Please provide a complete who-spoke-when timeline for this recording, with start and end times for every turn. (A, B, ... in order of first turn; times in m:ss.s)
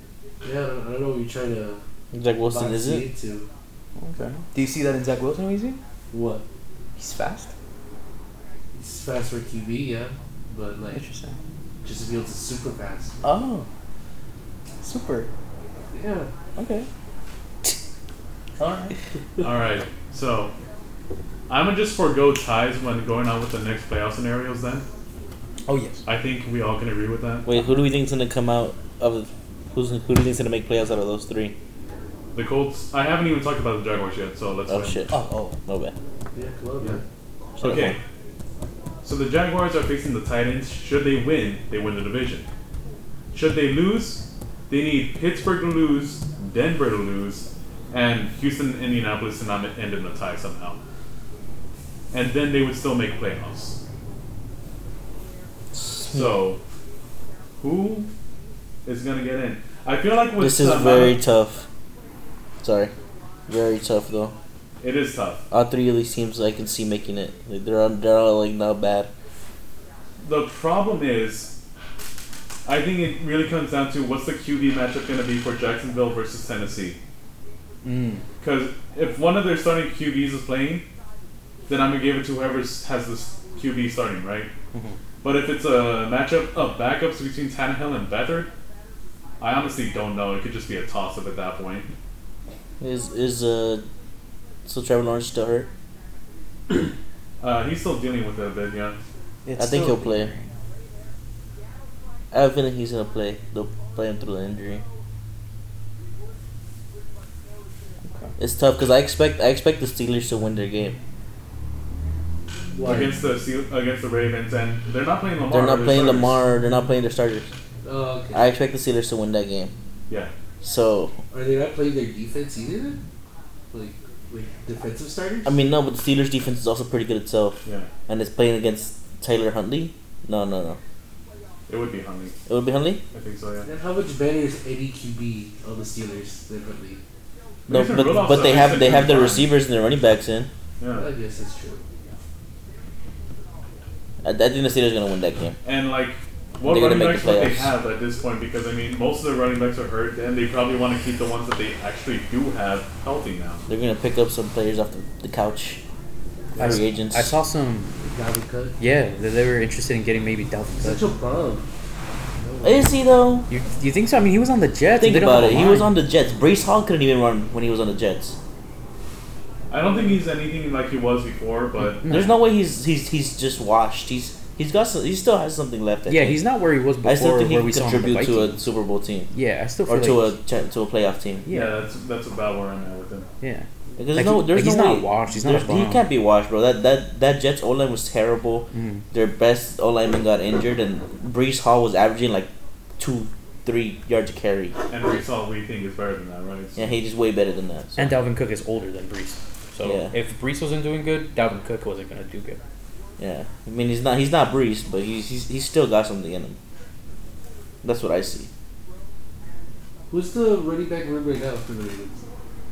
0:00.4-0:01.8 A
0:02.1-0:03.0 B
0:02.5-0:03.5 A
0:04.0-0:05.8 C
0:06.1-0:06.4 A
0:07.0-0:07.5 C
0:08.7-0:11.0 A
0:10.9-0:11.4 C
0:11.8-0:13.2 A
0:13.2-0:13.7 C
0:14.8-0:15.3 C
0:15.9-0:16.3 A
0:16.6-0:16.9 C
0:18.6-0:19.0 C
0:19.4-0:20.5 D
0:21.5-0:24.8 D
0:25.6-0:26.0 C
0:26.0-0:27.5 D
0:27.4-0:31.5 B
0:32.3-0:35.0 D
0:34.7-0:35.1 B
0:35.1-0:35.6 C
0:35.6-0:35.9 B
0:36.3-0:37.0 A
0:37.6-0:38.0 B
0:37.6-0:38.0 D
0:39.0-0:42.5 D
0:43.3-0:50.8 D
0:52.1-0:53.8 D
0:55.7-0:56.3 B
0:56.0-0:56.6 D
0:57.6-0:58.1 D
0:58.8-1:01.2 D
1:00.4-1:01.6 B
1:02.6-1:02.9 B
1:03.5-1:04.3 B
1:04.8-1:05.4 D
1:05.5-1:09.1 B
1:10.2-1:11.6 D
1:12.6-1:17.0 D
1:17.8-1:18.2 C
1:18.4-1:20.8 D
1:21.7-1:24.5 D
1:24.7-1:25.0 C
1:25.2-1:28.5 D
1:29.4-1:31.9 D
1:32.8-1:33.8 B
1:34.6-1:35.7 B
1:37.4-1:39.0 D
1:39.4-1:40.5 C
1:39.6-1:40.3 B
1:42.3-1:44.8 B
1:48.0-1:48.3 C
1:48.4-1:51.0 B
1:52.7-1:53.2 A
1:52.8-1:56.4 D
1:55.5-1:57.5 B
1:57.8-1:58.5 A
1:58.3-1:59.7 B
2:00.6-2:01.1 B
2:01.3-2:03.0 A
2:03.7-2:05.5 A
2:05.4-2:10.8 B
2:11.7-2:12.3 D
2:12.5-2:13.0 B
2:13.1-2:13.7 D
2:13.6-2:17.0 A
2:17.7-2:19.5 D
2:17.7-2:20.5 B
2:20.8-2:21.1 D
2:20.9-2:21.8 A
2:24.2-2:25.6 B
2:25.6-2:33.6 D
2:26.6-2:27.7 B
2:33.7-2:35.8 B
2:36.6-2:37.3 B
2:36.6-2:37.9 C
2:38.0-2:38.8 A
2:38.8-2:41.0 C
2:40.8-2:41.6 A
2:42.4-2:43.0 A
2:42.6-2:43.4 B
2:43.5-2:45.9 C
2:45.0-2:48.4 B
2:49.7-2:52.1 D
2:52.0-2:52.3 C
2:52.1-2:56.4 B
2:56.1-2:58.6 C
2:57.0-2:59.3 B
2:59.3-3:00.3 C
2:59.8-3:01.4 B
3:01.4-3:01.8 C
3:01.5-3:03.3 D
3:03.4-3:06.0 C
3:04.0-3:14.8 B
3:08.7-3:09.0 C
3:14.9-3:16.9 D
3:16.8-3:18.1 B
3:18.0-3:22.6 C
3:19.8-3:20.1 B
3:23.2-3:26.6 B
3:27.8-3:28.5 B
3:30.1-3:32.2 A